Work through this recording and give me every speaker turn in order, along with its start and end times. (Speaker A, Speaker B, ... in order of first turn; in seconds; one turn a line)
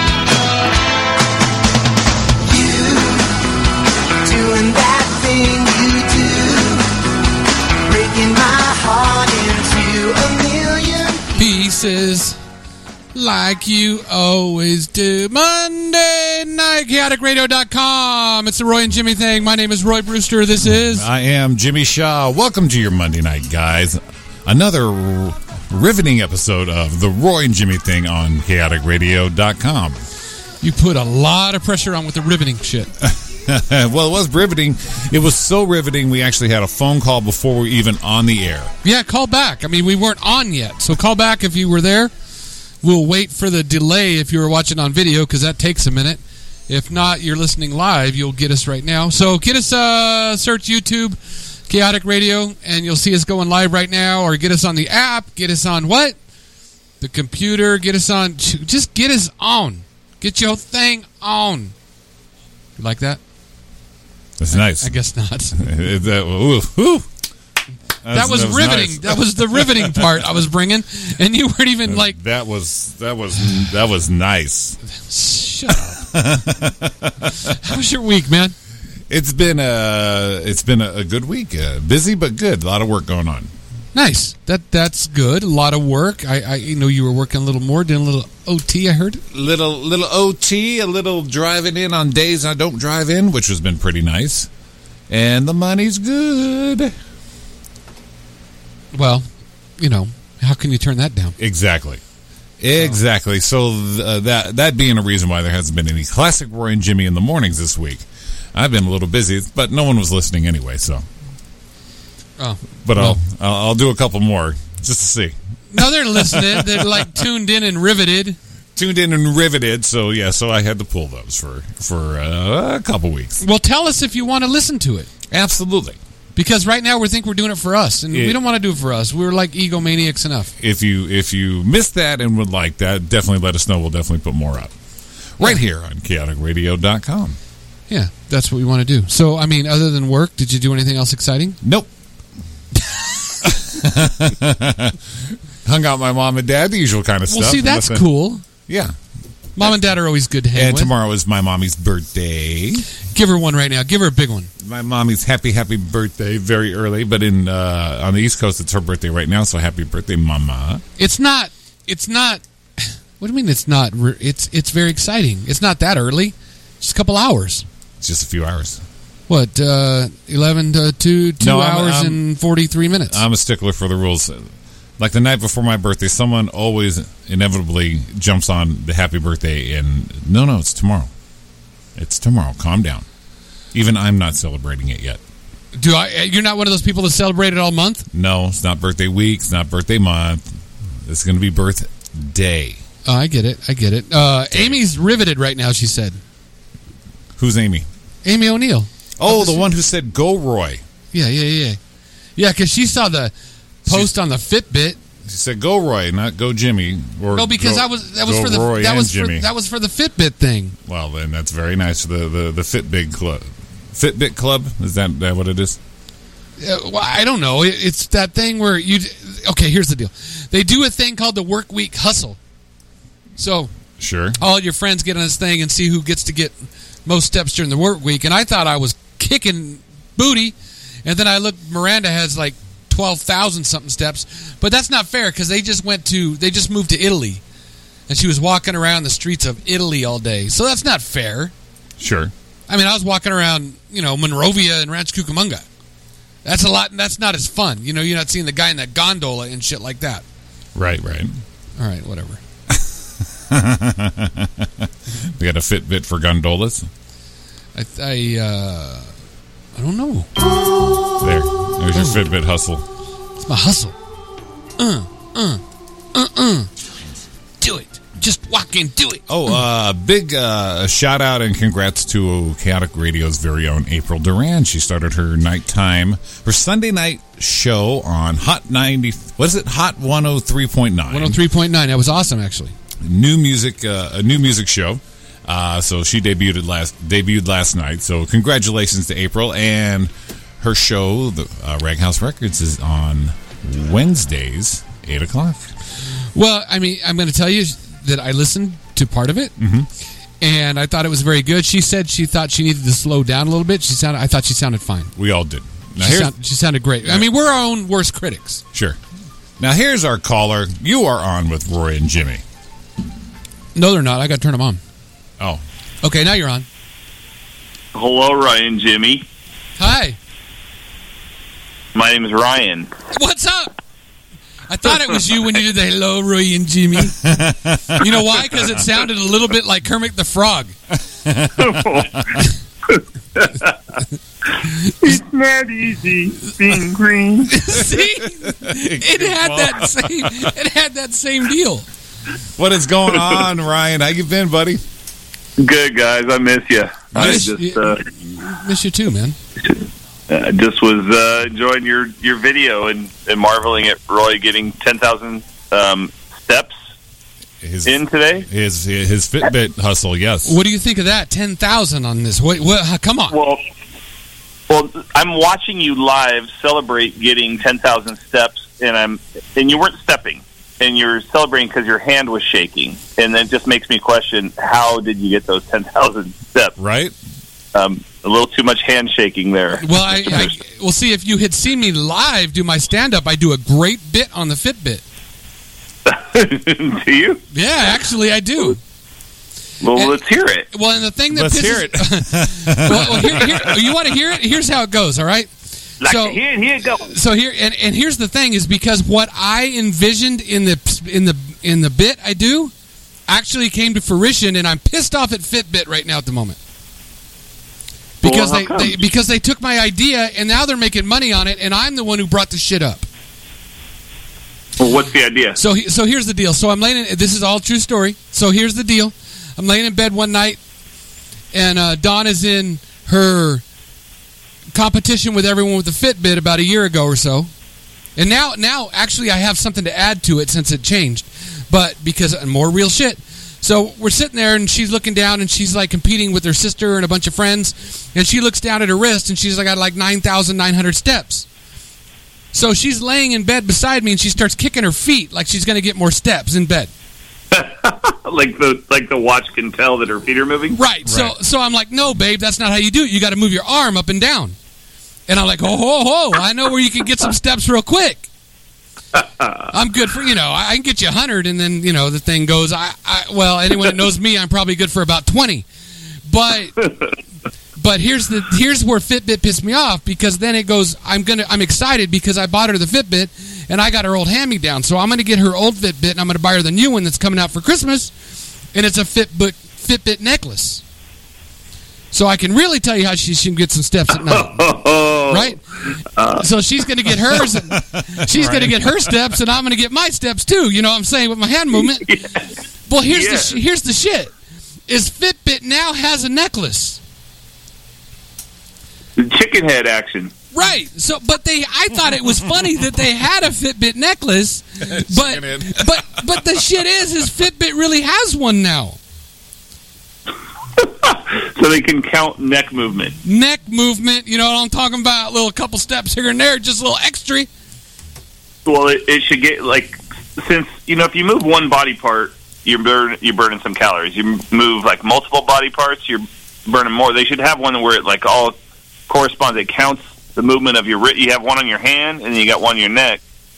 Speaker A: 2.4-3.4
Speaker A: 4.2-7.0
Speaker A: 7.8-11.2
Speaker B: 11.4-12.4
Speaker B: 13.1-21.1
Speaker C: 20.6-30.0
Speaker B: 30.6-32.9
Speaker C: 33.0-38.7
Speaker B: 38.8-42.1
Speaker B: 42.8-51.2
Speaker B: 51.7-56.1
Speaker B: 57.0-61.7
Speaker B: 62.8-63.2
Speaker C: 64.4-64.9
Speaker B: 64.5-65.7
Speaker C: 65.5-67.0
Speaker C: 68.0-70.2
Speaker B: 68.1-72.2
Speaker C: 71.9-74.8
Speaker B: 75.0-76.0
Speaker C: 76.0-77.5
Speaker B: 77.4-78.5
Speaker C: 79.1-83.5
Speaker B: 83.9-89.2
Speaker C: 89.3-94.5
Speaker C: 95.1-96.9
Speaker B: 98.9-99.2
Speaker B: 99.8-101.4
Speaker C: 101.4-102.0
Speaker C: 102.6-111.0
Speaker B: 112.4-113.2
Speaker C: 112.8-115.3
Speaker B: 115.7-118.4
Speaker C: 116.0-117.1
Speaker C: 118.8-123.4
Speaker B: 123.4-125.1
Speaker C: 125.3-126.0
Speaker B: 126.3-130.5
Speaker C: 128.1-128.4
Speaker C: 130.6-134.7
Speaker C: 135.4-137.4
Speaker B: 137.9-141.6
Speaker C: 141.6-141.9
Speaker C: 143.4-148.1
Speaker B: 147.3-148.4
Speaker C: 148.7-148.9
Speaker B: 149.6-150.9
Speaker C: 150.5-152.9
Speaker B: 153.1-154.5
Speaker C: 154.6-160.8
Speaker B: 161.0-167.7
Speaker C: 168.0-168.8
Speaker B: 169.3-173.2
Speaker C: 171.4-172.2
Speaker C: 173.1-181.1
Speaker C: 181.9-183.1
Speaker C: 183.7-185.2
Speaker B: 185.7-188.1
Speaker C: 188.1-190.4
Speaker C: 191.0-192.8
Speaker B: 193.0-196.2
Speaker C: 194.5-194.8
Speaker C: 197.4-197.9
Speaker B: 198.2-199.7
Speaker C: 199.2-200.8
Speaker B: 201.1-201.8
Speaker B: 202.4-203.3
Speaker B: 203.8-205.0
Speaker C: 203.9-204.1
Speaker C: 205.2-209.5
Speaker B: 207.3-210.8
Speaker C: 210.8-215.8
Speaker B: 216.6-222.4
Speaker B: 223.4-223.7
Speaker C: 224.0-224.4
Speaker B: 224.4-226.5
Speaker B: 227.1-237.4
Speaker B: 238.1-241.5
Speaker C: 242.0-242.3
Speaker B: 242.7-245.6
Speaker B: 246.4-250.2
Speaker C: 250.7-251.3
Speaker B: 251.8-252.4
Speaker C: 253.5-256.9
Speaker B: 257.7-259.1
Speaker B: 259.8-260.3
Speaker C: 261.2-262.8
Speaker B: 261.9-262.2
Speaker B: 263.4-263.9
Speaker B: 264.8-265.6
Speaker B: 266.1-266.7
Speaker B: 267.6-269.3
Speaker C: 269.3-281.4
Speaker B: 281.1-282.7
Speaker C: 283.0-295.7
Speaker B: 296.3-299.5
Speaker C: 299.6-299.9
Speaker B: 300.4-305.1
Speaker C: 305.1-306.3
Speaker B: 306.0-308.6
Speaker C: 309.6-312.4
Speaker B: 313.7-314.8
Speaker B: 316.0-316.6
Speaker D: 317.9-319.2
Speaker B: 319.8-320.2
Speaker D: 321.9-322.9
Speaker B: 323.1-323.7
Speaker B: 324.7-327.3
Speaker C: 327.2-328.0
Speaker B: 328.0-330.7
Speaker C: 331.2-332.4
Speaker D: 331.6-333.8
Speaker D: 335.0-337.6
Speaker B: 337.5-341.9
Speaker C: 338.5-340.5
Speaker C: 342.6-344.8
Speaker D: 345.6-348.0
Speaker B: 347.1-349.4
Speaker C: 347.1-347.4
Speaker D: 349.6-356.7
Speaker C: 357.6-360.6
Speaker D: 357.9-358.4
Speaker B: 360.4-363.3
Speaker D: 363.3-363.6
Speaker D: 364.7-376.7
Speaker C: 376.8-377.1
Speaker D: 377.7-380.5
Speaker B: 379.8-385.0
Speaker D: 386.1-387.4
Speaker B: 387.5-388.8
Speaker D: 389.8-390.7
Speaker B: 390.7-395.5
Speaker C: 391.3-393.8
Speaker D: 396.0-397.1
Speaker B: 396.0-396.4
Speaker B: 397.0-402.7
Speaker B: 403.3-406.6
Speaker B: 408.2-413.1
Speaker D: 408.2-409.0
Speaker D: 414.8-415.6
Speaker B: 415.6-420.6
Speaker B: 421.5-423.6
Speaker B: 424.7-427.5
Speaker B: 428.1-441.4
Speaker B: 442.5-446.9
Speaker D: 447.5-450.8
Speaker B: 450.8-454.6
Speaker C: 451.1-451.3
Speaker B: 455.3-458.3
Speaker D: 459.1-459.5
Speaker B: 459.7-465.7
Speaker B: 466.2-466.9
Speaker B: 467.8-478.1
Speaker B: 478.7-480.8
Speaker B: 482.1-484.6
Speaker D: 484.2-485.5
Speaker B: 485.3-485.6
Speaker D: 486.1-486.4
Speaker B: 486.3-492.1
Speaker C: 487.7-489.1
Speaker D: 492.0-492.4
Speaker B: 492.9-494.3
Speaker D: 493.1-493.6
Speaker B: 494.9-497.0
Speaker D: 499.2-500.3
Speaker B: 500.5-509.0
Speaker C: 504.8-506.2
Speaker D: 510.8-513.1
Speaker B: 513.2-517.5
Speaker D: 518.6-528.5
Speaker D: 529.1-533.2